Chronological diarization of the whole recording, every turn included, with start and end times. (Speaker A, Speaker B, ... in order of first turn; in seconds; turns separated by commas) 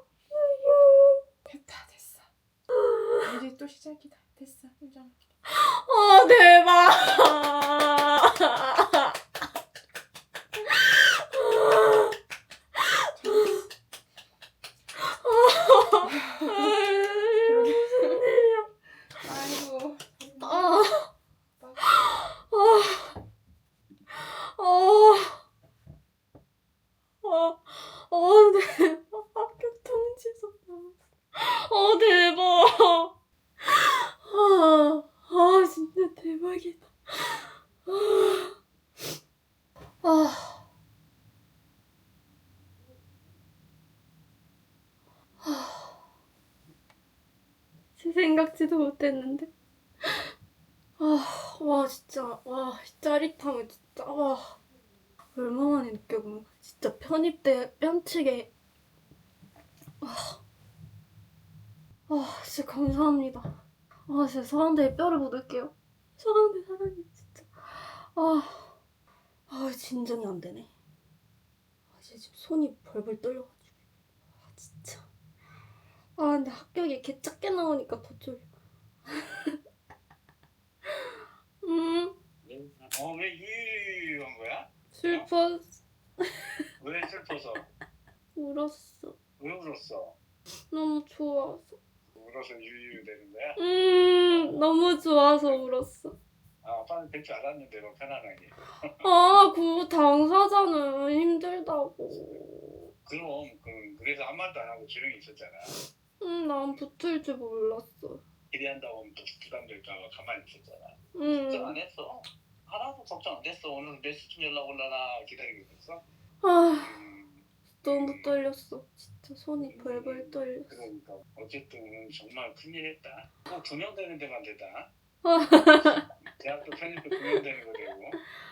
Speaker A: 0.4-1.2, Speaker B: 1.5-2.3, Speaker B: 3.2-5.1, Speaker A: 5.5-9.1, Speaker A: 10.7-12.2, Speaker A: 13.0-13.5, Speaker B: 13.2-13.6, Speaker A: 15.0-18.7, Speaker B: 16.2-16.7, Speaker B: 17.4-18.3, Speaker B: 19.2-20.9, Speaker A: 20.4-21.1, Speaker B: 21.6-21.9, Speaker A: 21.9-23.2, Speaker A: 24.1-25.4, Speaker A: 27.2-38.5, Speaker A: 40.0-40.6, Speaker A: 45.4-46.0, Speaker A: 48.0-49.5, Speaker A: 51.0-54.5, Speaker A: 55.3-58.5, Speaker A: 60.0-60.4, Speaker A: 62.1-63.5, Speaker A: 64.1-68.7, Speaker A: 69.5-70.7, Speaker A: 72.0-73.6, Speaker A: 74.5-75.0, Speaker A: 76.2-78.5, Speaker A: 79.1-79.5, Speaker A: 81.6-82.1, Speaker C: 82.4-85.2, Speaker A: 84.9-85.8, Speaker C: 86.8-87.7, Speaker A: 88.3-89.1, Speaker C: 89.4-90.2, Speaker A: 90.7-91.8, Speaker C: 92.1-93.6, Speaker A: 93.6-96.1, Speaker C: 94.2-95.6, Speaker C: 96.6-98.6, Speaker A: 99.0-102.9, Speaker C: 103.0-105.7, Speaker A: 106.2-108.2, Speaker C: 108.5-116.0, Speaker A: 111.1-111.8, Speaker A: 116.4-117.0, Speaker C: 116.8-118.4, Speaker A: 117.8-120.8, Speaker C: 119.6-124.9, Speaker A: 125.2-126.0, Speaker C: 125.8-128.2